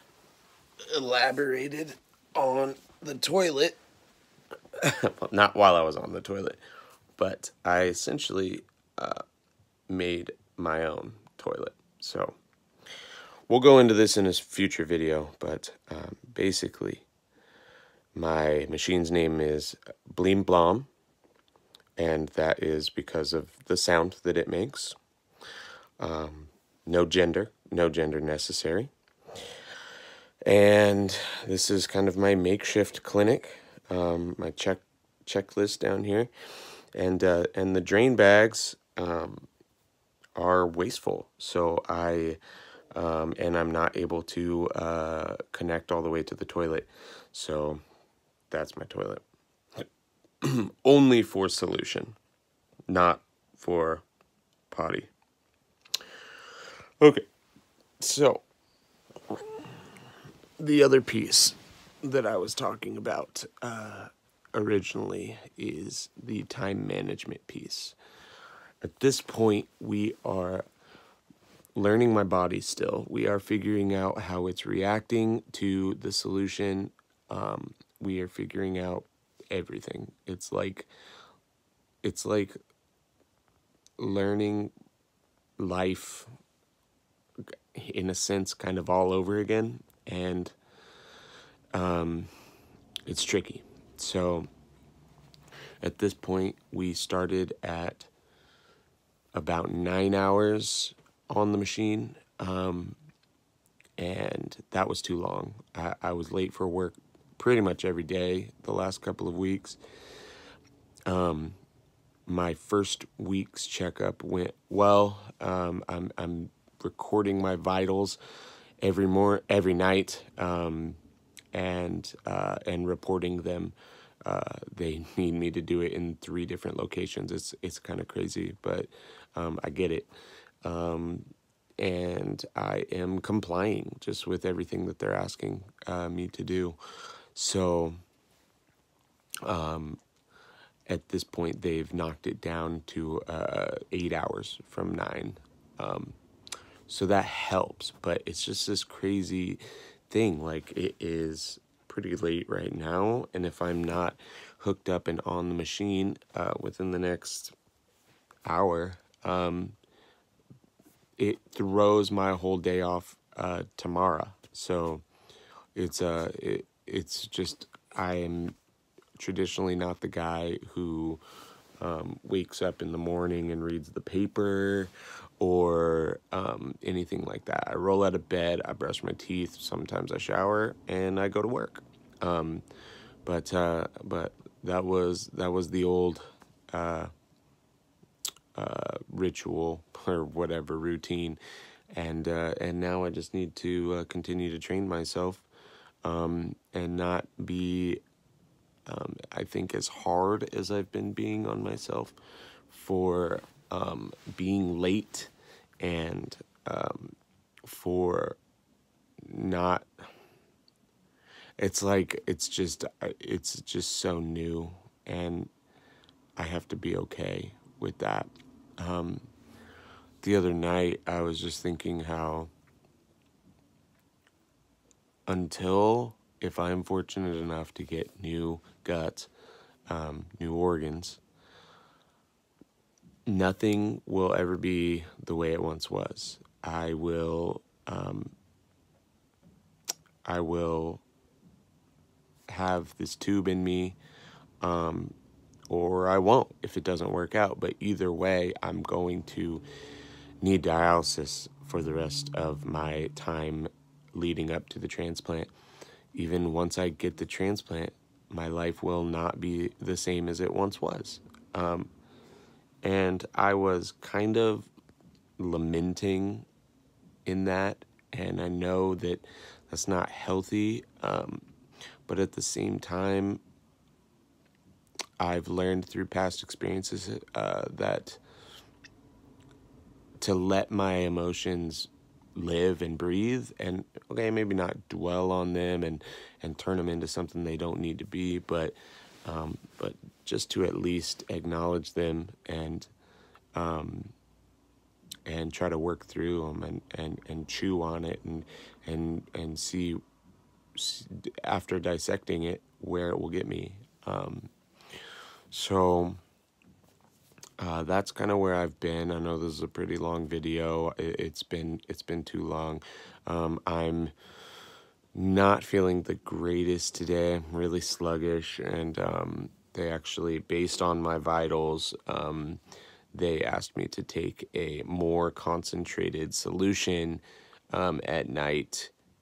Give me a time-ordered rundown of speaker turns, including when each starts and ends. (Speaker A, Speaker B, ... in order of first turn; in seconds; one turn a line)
Speaker A: 0.9-3.8
Speaker A: 4.8-6.6
Speaker A: 7.2-9.2
Speaker A: 9.9-12.4
Speaker A: 13.5-17.1
Speaker A: 18.1-20.9
Speaker A: 22.0-24.9
Speaker A: 26.0-28.9
Speaker A: 30.4-36.3
Speaker A: 36.9-39.5
Speaker A: 40.4-42.4
Speaker A: 42.9-47.8
Speaker A: 48.5-49.2
Speaker A: 50.4-52.1
Speaker A: 52.9-54.0
Speaker A: 54.7-55.1
Speaker A: 57.0-57.2
Speaker A: 58.0-58.4
Speaker A: 59.3-59.7
Speaker A: 60.6-68.0
Speaker A: 68.8-70.7
Speaker A: 71.8-80.9
Speaker A: 82.0-82.6
Speaker A: 84.0-84.7
Speaker A: 85.6-86.3
Speaker A: 87.7-90.5
Speaker A: 91.7-92.3
Speaker A: 93.0-94.5
Speaker A: 95.8-98.1
Speaker A: 99.3-103.0
Speaker A: 104.0-109.8
Speaker A: 111.1-111.6
Speaker A: 112.3-118.2
Speaker A: 118.8-121.0
Speaker A: 121.5-130.1
Speaker A: 130.6-136.8
Speaker A: 137.3-138.0
Speaker A: 139.4-140.0
Speaker A: 140.9-146.2
Speaker A: 146.9-157.5
Speaker A: 158.4-159.8
Speaker A: 161.2-165.0
Speaker A: 165.7-168.5
Speaker A: 169.2-171.2
Speaker A: 171.8-182.6
Speaker A: 183.2-187.1
Speaker A: 188.5-191.4
Speaker A: 191.9-195.4
Speaker A: 196.0-198.0
Speaker A: 198.8-202.2
Speaker A: 202.7-207.2
Speaker A: 207.7-208.4
Speaker A: 209.2-209.9
Speaker A: 211.6-215.5
Speaker A: 216.4-219.3
Speaker A: 220.2-222.5
Speaker A: 225.3-229.3
Speaker A: 229.9-231.2
Speaker A: 233.3-238.3
Speaker A: 240.2-241.0
Speaker A: 242.5-244.0
Speaker A: 244.6-245.1
Speaker A: 245.7-249.6
Speaker A: 250.4-255.5
Speaker A: 256.1-261.9
Speaker A: 262.8-264.7
Speaker A: 265.4-266.4
Speaker A: 267.2-271.4
Speaker A: 272.1-273.4
Speaker A: 275.2-278.2
Speaker A: 280.2-292.9
Speaker A: 293.5-294.1
Speaker A: 295.2-300.0
Speaker A: 300.7-304.5
Speaker A: 305.5-306.2
Speaker A: 307.6-314.1
Speaker A: 315.1-322.6
Speaker A: 323.1-328.9